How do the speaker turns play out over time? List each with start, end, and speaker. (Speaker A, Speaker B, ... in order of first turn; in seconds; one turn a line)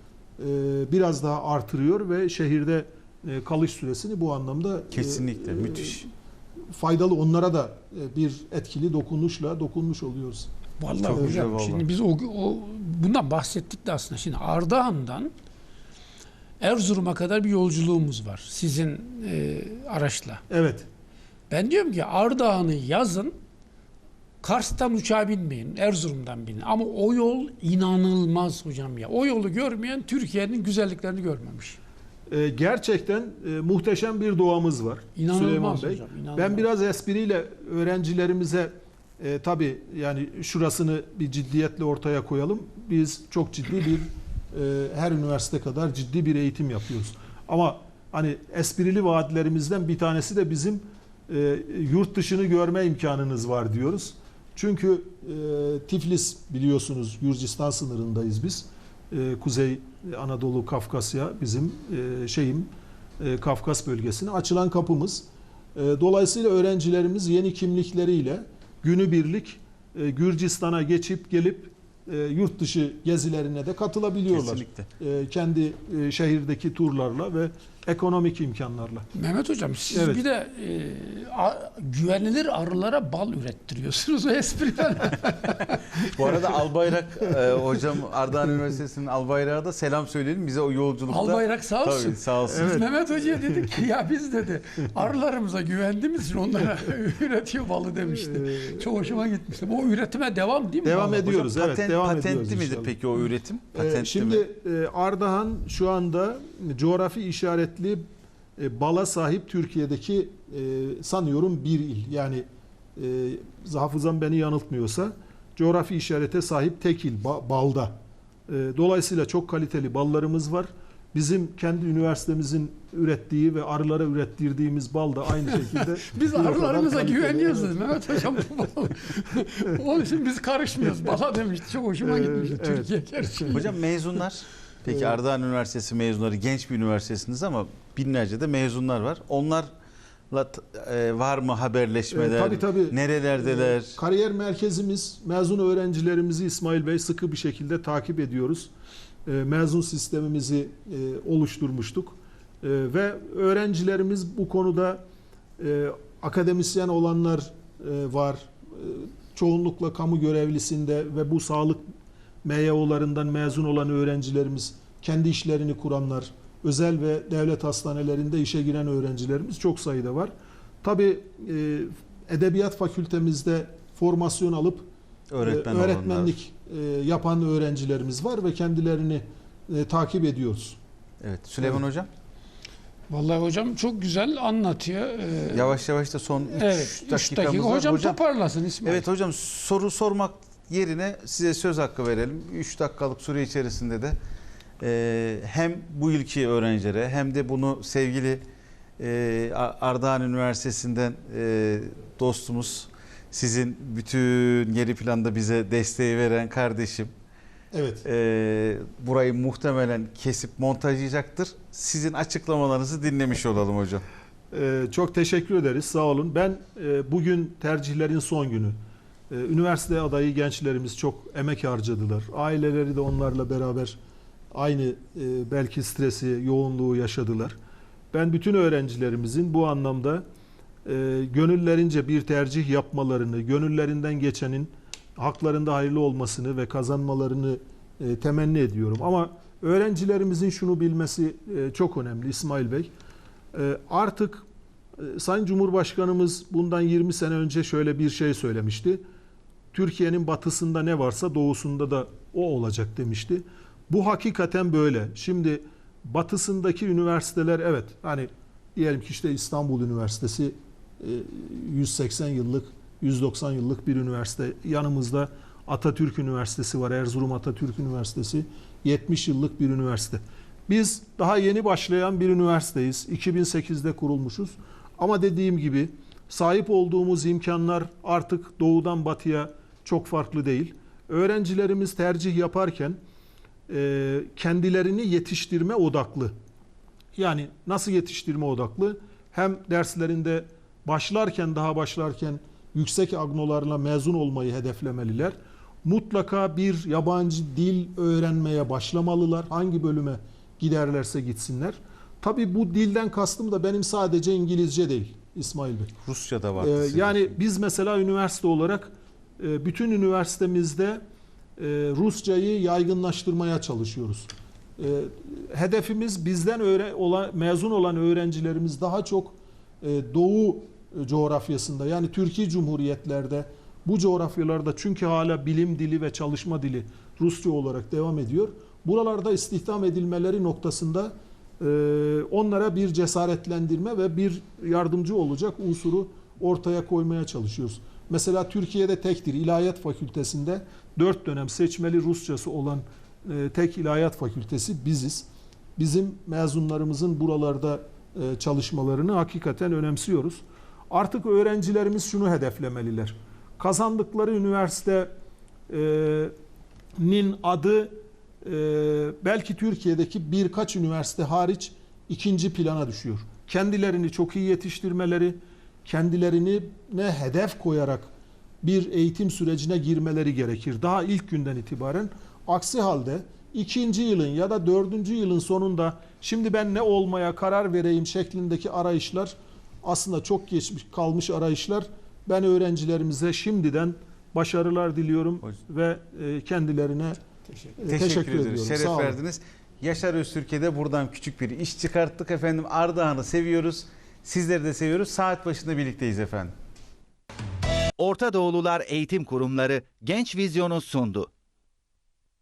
Speaker A: 0.4-6.1
Speaker B: 4.9-6.0
Speaker A: 6.7-10.5
Speaker C: 10.8-15.3
Speaker B: 11.0-11.9
Speaker A: 11.1-11.4
Speaker C: 16.6-20.4
Speaker A: 20.5-20.9
Speaker C: 21.5-23.3
Speaker C: 24.4-31.8
Speaker A: 32.3-79.1
Speaker C: 35.1-36.6
Speaker B: 74.3-74.9
Speaker C: 79.1-86.1
Speaker A: 79.9-80.2
Speaker B: 86.0-92.8
Speaker C: 91.1-101.3
Speaker A: 92.5-93.8
Speaker A: 98.0-99.1
Speaker A: 100.8-103.0
Speaker B: 101.2-104.4
Speaker A: 103.7-128.4
Speaker C: 125.7-133.7
Speaker A: 130.8-131.2
Speaker A: 132.0-133.7
Speaker B: 133.5-139.7
Speaker A: 134.9-135.1
Speaker B: 140.3-144.0
Speaker A: 142.1-148.7
Speaker A: 149.2-155.0
Speaker A: 155.6-161.8
Speaker A: 162.4-170.3
Speaker A: 170.8-174.9
Speaker B: 175.3-176.3
Speaker A: 175.4-180.8
Speaker B: 181.2-182.1
Speaker C: 183.1-185.8
Speaker B: 185.5-188.2
Speaker C: 186.5-189.1
Speaker B: 188.8-194.2
Speaker B: 194.8-198.4
Speaker B: 199.0-207.1
Speaker A: 207.7-208.0
Speaker B: 208.0-214.0
Speaker A: 214.5-218.8
Speaker A: 219.3-224.0
Speaker A: 224.5-227.6
Speaker A: 228.1-230.2
Speaker A: 230.8-242.9
Speaker A: 243.5-244.4
Speaker A: 245.0-249.0
Speaker A: 249.7-283.0
Speaker A: 283.7-286.3
Speaker A: 287.1-305.9
Speaker B: 306.0-307.4
Speaker A: 306.6-311.0
Speaker A: 311.6-345.2
Speaker A: 345.8-355.1
Speaker A: 355.7-356.3
Speaker A: 357.0-368.1
Speaker A: 368.6-387.2
Speaker A: 387.8-389.2
Speaker B: 387.9-396.5
Speaker D: 398.0-401.3